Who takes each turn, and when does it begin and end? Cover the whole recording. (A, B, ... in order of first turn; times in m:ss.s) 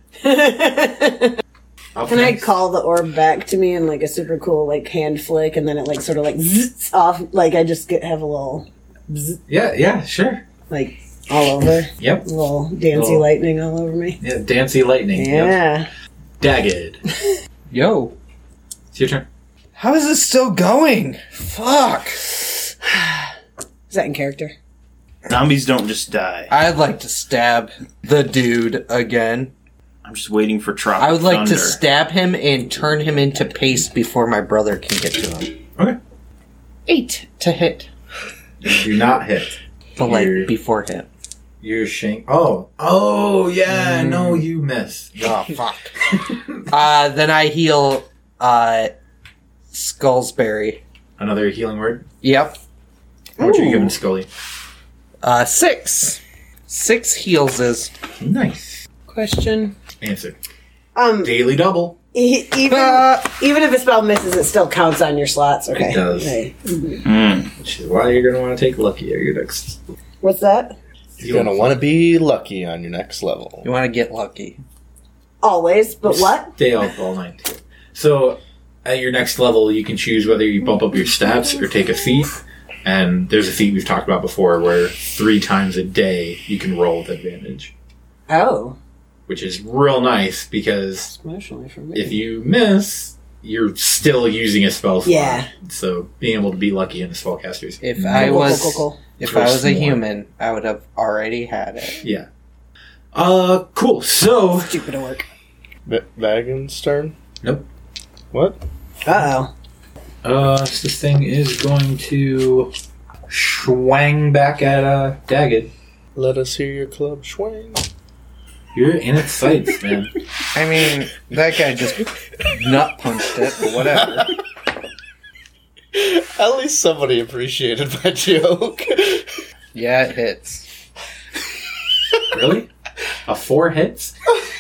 0:00.2-0:01.4 A
0:02.0-0:02.5 B
0:02.1-0:09.4 A
0:09.5-0:10.4 B
0:10.7-0:14.2 A
0:12.0-0:12.3 B
0:12.9-0:13.3 B
0:14.2-0:15.6 B
0:15.2-0:15.9 A
0:16.4-0:17.0 B
0:17.7-0:18.2 C
0:18.9-0:19.3 B
0:19.8-0:22.4 C
0:23.9-0:24.5 A
0:25.3-0:26.5 D
0:26.5-0:29.5 C
0:30.0-0:31.8 D
0:31.0-0:35.5 C
0:36.9-0:37.9 C
0:38.6-0:40.5 B
0:40.0-0:41.1 C
0:41.6-0:45.4 B
0:43.7-0:44.4 C
0:45.2-0:46.0 C
0:46.7-0:48.9 C
0:49.7-0:50.8 C
0:51.2-0:52.0 B
0:52.2-0:52.6 C
0:53.4-0:54.3 B
0:53.6-0:53.9 A
0:55.2-0:57.9 C
0:58.2-0:58.8 B
0:59.1-0:59.8 A
1:00.0-1:00.4 B
1:01.0-1:01.4 A
1:01.2-1:02.0 B
1:02.1-1:07.0 A
1:02.6-1:03.3 C
1:05.7-1:06.4 B
1:07.0-1:07.5 D
1:07.6-1:09.8 B
1:10.2-1:10.8 A
1:11.2-1:11.8 B
1:11.2-1:13.7 E
1:13.6-1:14.6 C
1:15.4-1:16.5 A
1:16.1-1:27.7 B
1:28.3-1:28.8 A
1:29.3-1:31.1 B
1:31.1-1:32.2 A
1:31.9-1:40.0 B
1:35.0-1:35.5 A
1:37.8-1:42.0 C
1:38.2-1:39.0 A
1:42.0-1:42.3 B
1:43.1-1:44.8 B
1:44.6-1:45.3 A
1:45.9-1:47.2 E
1:48.3-1:48.6 E
1:49.0-1:49.5 A
1:50.2-1:52.7 B
1:53.3-1:55.7 B
1:56.2-1:57.8 E
1:58.8-2:00.1 B
2:00.5-2:04.4 C
2:05.9-2:09.4 E
2:09.7-2:10.7 C
2:12.3-2:12.7 B
2:13.2-2:14.1 B